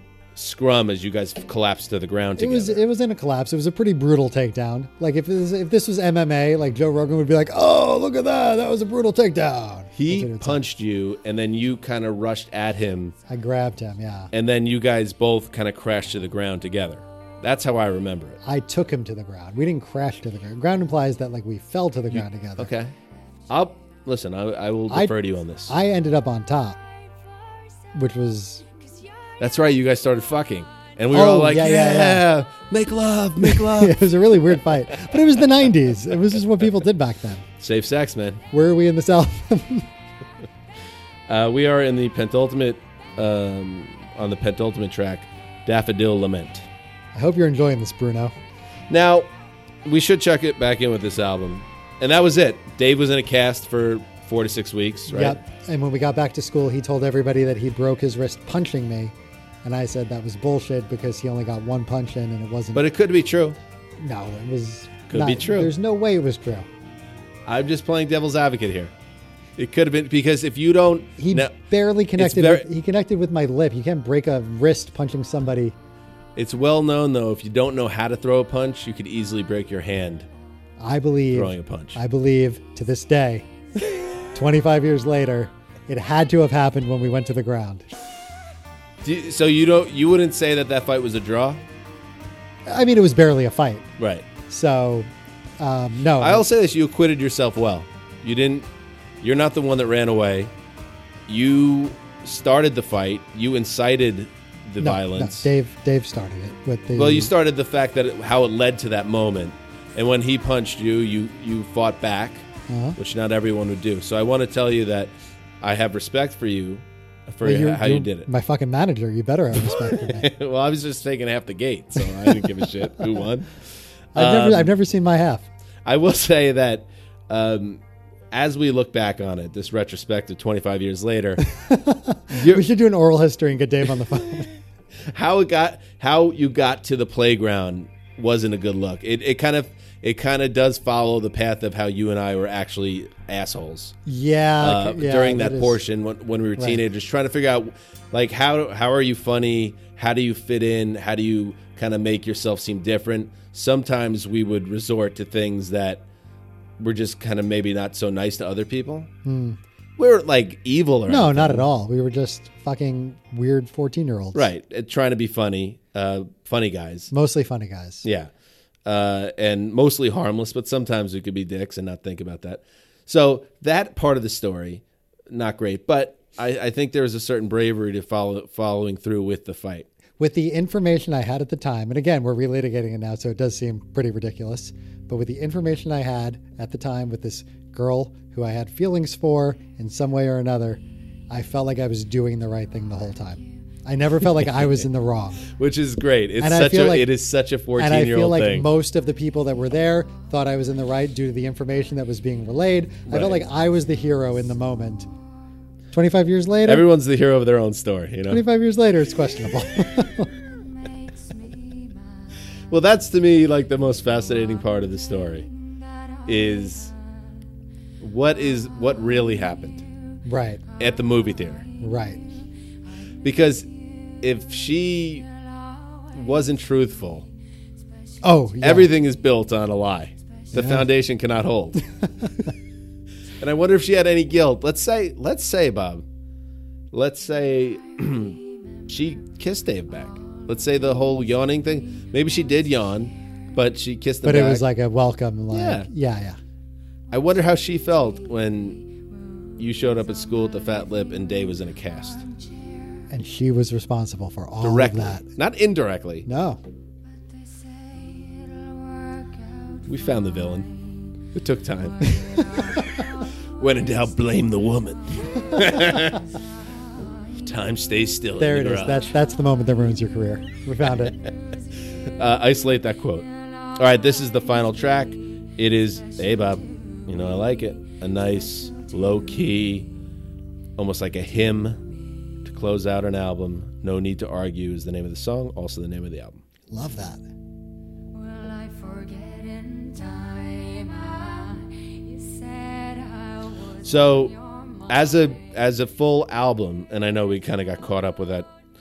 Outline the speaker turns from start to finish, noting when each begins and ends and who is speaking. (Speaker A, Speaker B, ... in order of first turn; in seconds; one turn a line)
Speaker A: 0.3-2.8
Speaker B: 2.4-10.6
Speaker A: 9.9-13.1
Speaker B: 13.3-14.3
Speaker A: 14.3-18.4
Speaker B: 18.4-22.7
Speaker A: 22.1-22.9
Speaker A: 23.5-25.7
Speaker B: 25.7-26.8
Speaker B: 27.9-28.6
Speaker A: 29.4-34.8
Speaker B: 31.1-32.2
Speaker B: 33.4-37.4
Speaker A: 37.6-38.4
Speaker B: 38.5-39.9
Speaker A: 41.3-46.7
Speaker B: 47.1-48.3
Speaker A: 48.9-49.3
Speaker A: 49.8-55.4
Speaker B: 55.1-62.8
Speaker A: 62.7-63.6
Speaker B: 64.0-66.7
Speaker A: 65.1-65.7
Speaker A: 67.5-68.9
Speaker A: 69.6-71.5
Speaker B: 71.2-75.7
Speaker A: 72.2-72.6
Speaker A: 76.3-80.3
Speaker B: 80.8-83.5
Speaker A: 81.3-82.0
Speaker A: 83.9-84.2
Speaker B: 84.3-87.9
Speaker A: 89.0-91.6
Speaker B: 92.7-93.9
Speaker A: 94.0-94.3
Speaker B: 94.5-96.5
Speaker A: 96.2-98.7
Speaker A: 99.2-100.5
Speaker A: 101.3-105.5
Speaker B: 104.8-107.3
Speaker A: 106.9-112.5
Speaker B: 112.7-113.0
Speaker A: 113.0-118.3
Speaker B: 117.4-120.3
Speaker A: 119.5-123.6
Speaker A: 124.1-124.7
Speaker B: 124.1-125.5
Speaker A: 125.8-127.8
Speaker A: 128.3-131.4
Speaker B: 131.5-134.5
Speaker A: 132.3-132.6
Speaker A: 135.1-143.9
Speaker B: 144.1-145.8
Speaker A: 144.6-156.0
Speaker A: 156.8-159.1
Speaker B: 159.2-159.6
Speaker A: 160.0-161.7
Speaker B: 161.1-164.5
Speaker A: 164.3-167.1
Speaker B: 167.1-168.0
Speaker A: 168.0-168.3
Speaker A: 168.8-179.9
Speaker B: 180.2-195.4
Speaker A: 194.4-194.8
Speaker A: 195.4-198.7
Speaker B: 196.4-197.1
Speaker B: 197.8-205.1
Speaker A: 203.1-203.5
Speaker B: 205.9-206.8
Speaker A: 206.7-208.4
Speaker B: 208.3-210.3
Speaker C: 211.1-212.0
Speaker A: 212.7-215.5
Speaker A: 216.2-216.9
Speaker A: 218.0-219.8
Speaker B: 220.2-220.6
Speaker A: 220.8-221.7
Speaker B: 221.8-222.2
Speaker A: 223.2-223.7
Speaker A: 224.2-225.2
Speaker A: 226.1-227.2
Speaker B: 228.2-228.9
Speaker A: 228.6-231.8
Speaker B: 230.5-230.8
Speaker B: 232.2-232.5
Speaker A: 233.4-236.0
Speaker A: 236.9-244.6
Speaker B: 244.2-246.4
Speaker A: 245.5-245.9
Speaker A: 247.1-248.8
Speaker A: 249.6-252.2
Speaker B: 253.1-255.2
Speaker A: 254.6-256.2
Speaker B: 256.2-256.6
Speaker C: 257.4-259.9
Speaker A: 259.9-260.7
Speaker A: 261.2-262.1
Speaker B: 262.4-262.6
Speaker C: 262.7-263.0
Speaker A: 263.6-266.3
Speaker A: 267.4-269.1
Speaker B: 268.4-271.2
Speaker A: 272.1-279.9
Speaker A: 280.8-281.8
Speaker A: 282.4-286.4
Speaker B: 286.7-287.2
Speaker C: 288.1-295.0
Speaker A: 293.8-294.3
Speaker A: 294.9-298.5